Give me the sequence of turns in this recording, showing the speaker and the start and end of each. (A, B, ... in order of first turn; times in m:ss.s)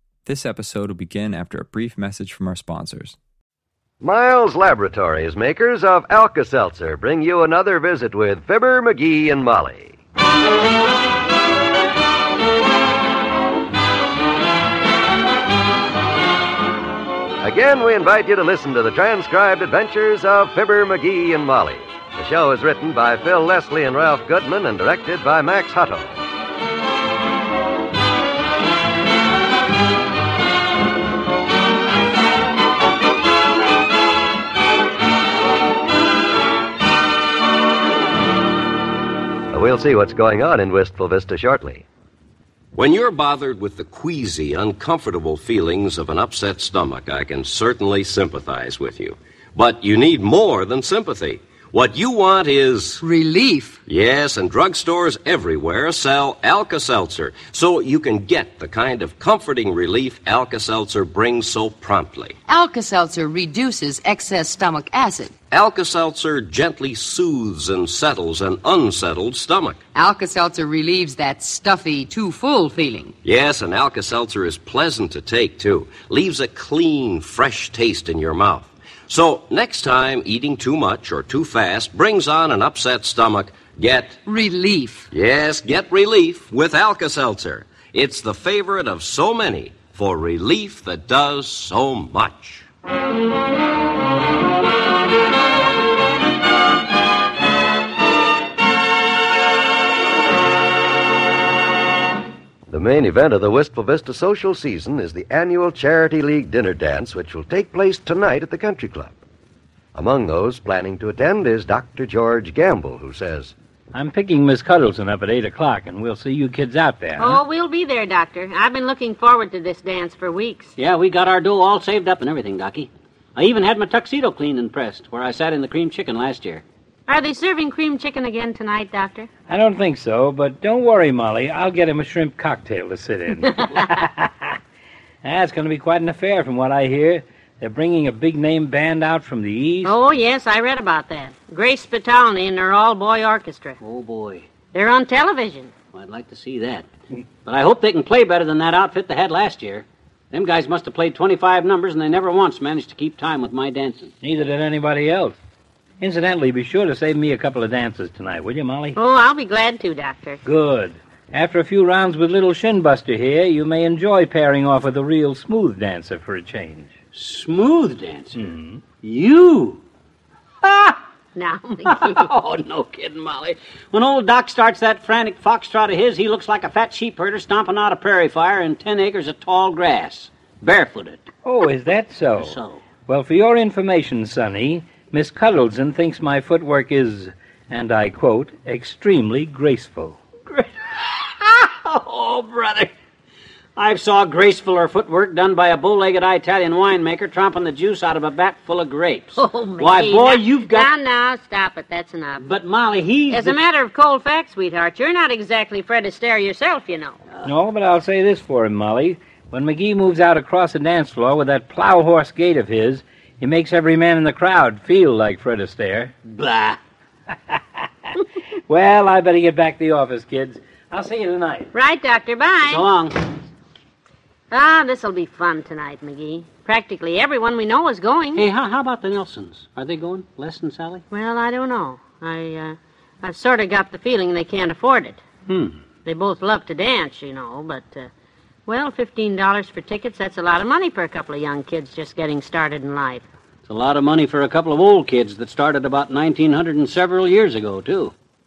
0:00.2-0:03.2 A
0:04.0-0:10.0 B
0:17.4-0:26.2 B
0:39.5-0:41.8 B
0:42.9-0:49.1 C
0:49.7-0:53.0 C
0:51.2-0:52.0 B
0:53.0-0:53.8 D
0:53.9-1:02.1 C
0:56.9-0:58.8 B
0:59.5-1:02.3 B
1:02.5-1:05.3 D
1:05.6-1:06.0 B
1:05.6-1:09.5 C
1:08.3-1:09.8 B
1:09.9-1:13.1 D
1:13.2-1:18.4 C
1:15.6-1:16.4 B
1:17.7-1:19.3 B
1:19.3-1:22.8 C
1:20.0-1:20.8 B
1:22.3-1:24.1 B
1:24.2-1:25.1 D
1:25.1-1:32.6 C
1:27.6-1:30.1 B
1:42.7-1:49.2 B
1:49.9-1:53.5 B
1:53.9-1:57.4 E
1:57.2-2:00.7 F
2:00.8-2:06.6 G
2:07.1-2:09.3 F
2:09.5-2:14.6 E
2:15.2-2:19.9 E
2:19.8-2:23.8 F
2:23.8-2:24.5 G
2:24.7-2:25.7 F
2:25.9-2:26.9 G
2:27.4-2:34.1 G
2:34.2-2:35.4 E
2:36.0-2:39.0 E
2:38.9-2:40.4 F
2:40.4-2:46.9 E
2:47.1-2:49.8 G
2:48.4-2:48.8 E
2:50.6-2:51.0 G
2:51.3-2:52.2 F
2:51.8-3:01.3 G
3:01.4-3:10.2 E
3:02.4-3:02.8 G
3:10.5-3:12.9 G
3:13.8-3:20.9 G
3:19.4-3:22.4 F
3:22.4-3:23.6 G
3:23.3-3:27.2 F
3:27.4-3:36.1 E
3:36.3-3:36.8 G
3:38.7-3:41.7 E
3:41.7-3:42.8 F
3:42.7-3:43.2 G
3:44.5-3:48.4 F
3:48.4-3:51.0 G
3:51.1-3:55.2 F
3:55.5-3:55.8 G
3:56.0-3:58.1 F
3:58.6-4:03.2 F
4:03.7-4:08.1 G